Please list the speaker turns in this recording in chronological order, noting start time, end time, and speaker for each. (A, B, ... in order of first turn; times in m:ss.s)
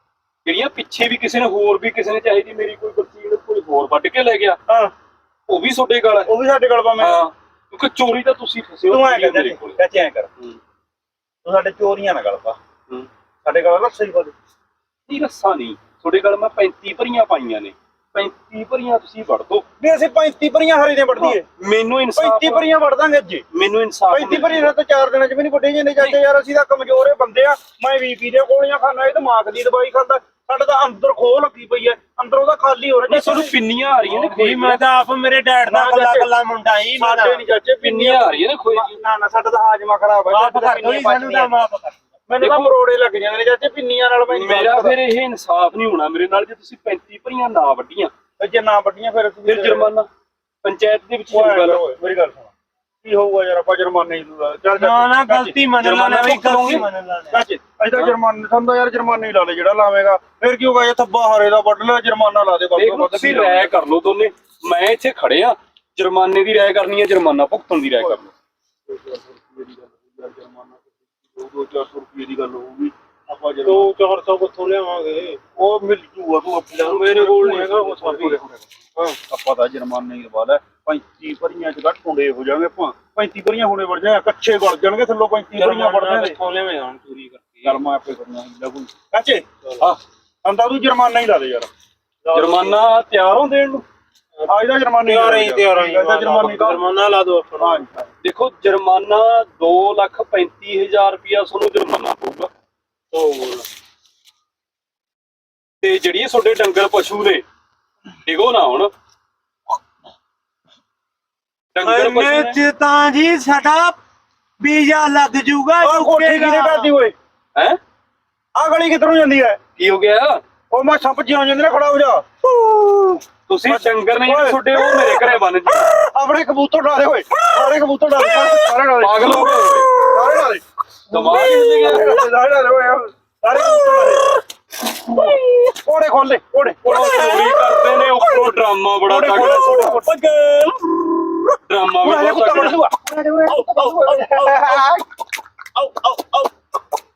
0:00.4-0:04.6 A
0:04.7-0:04.9 B
0:05.5-0:06.3 A
0:06.2-0:07.2 B
0:07.0-0:09.8 A
0:08.9-0:10.3 B
0:11.4-0:12.6 B
0:13.4-0:14.3 B
0:15.1-0:19.6 A
0:19.8-0:21.4 B
0:21.1-0:22.7 A
0:22.1-0:23.4 B
0:23.5-0:24.8 A
0:24.1-0:33.5 B
0:33.1-0:34.8 A
0:34.0-0:37.4 C
0:35.6-0:36.3 B
0:37.0-0:41.5 B
0:37.8-0:39.0 A
0:40.3-0:42.0 C
0:42.3-0:45.0 B
0:42.4-0:42.7 A
0:44.3-0:48.1 A
0:48.4-0:49.9 B
0:49.4-0:50.1 A
0:50.6-0:51.8 A
0:51.3-0:52.5 B
0:53.0-0:55.6 B
0:54.8-0:57.4 C
0:55.8-0:56.9 A
0:57.3-1:03.7 B
1:02.8-1:08.3 A
1:08.9-1:13.9 B
1:13.6-1:15.4 C
1:15.6-1:17.1 B
1:16.8-1:18.4 A
1:17.0-1:18.4 C
1:19.0-1:26.4 B
1:25.5-1:27.8 C
1:27.6-1:29.4 B
1:30.4-1:31.7 B
1:32.2-1:32.8 C
1:32.3-1:33.8 A
1:34.4-1:37.8 C
1:34.4-1:36.8 B
1:36.3-1:36.8 A
1:37.6-1:38.1 B
1:38.2-1:42.5 A
1:43.1-1:43.6 C
1:45.8-1:47.4 A
1:48.2-1:48.9 A
1:51.7-1:52.6 A
1:51.8-1:54.0 C
1:54.6-1:56.9 C
1:55.8-1:57.1 B
1:58.5-1:59.6 B
1:59.8-2:00.4 A
2:00.7-2:05.4 B
2:03.5-2:05.9 A
2:06.0-2:14.3 B
2:09.0-2:09.9 A
2:11.1-2:12.2 A
2:11.9-2:12.2 C
2:13.7-2:14.1 C
2:14.9-2:15.7 C
2:15.8-2:17.6 B
2:16.8-2:20.0 A
2:16.9-2:18.3 C
2:19.0-2:20.1 B
2:19.3-2:20.8 C
2:21.7-2:22.8 A
2:22.0-2:25.0 B
2:23.5-2:24.8 C
2:25.8-2:26.3 C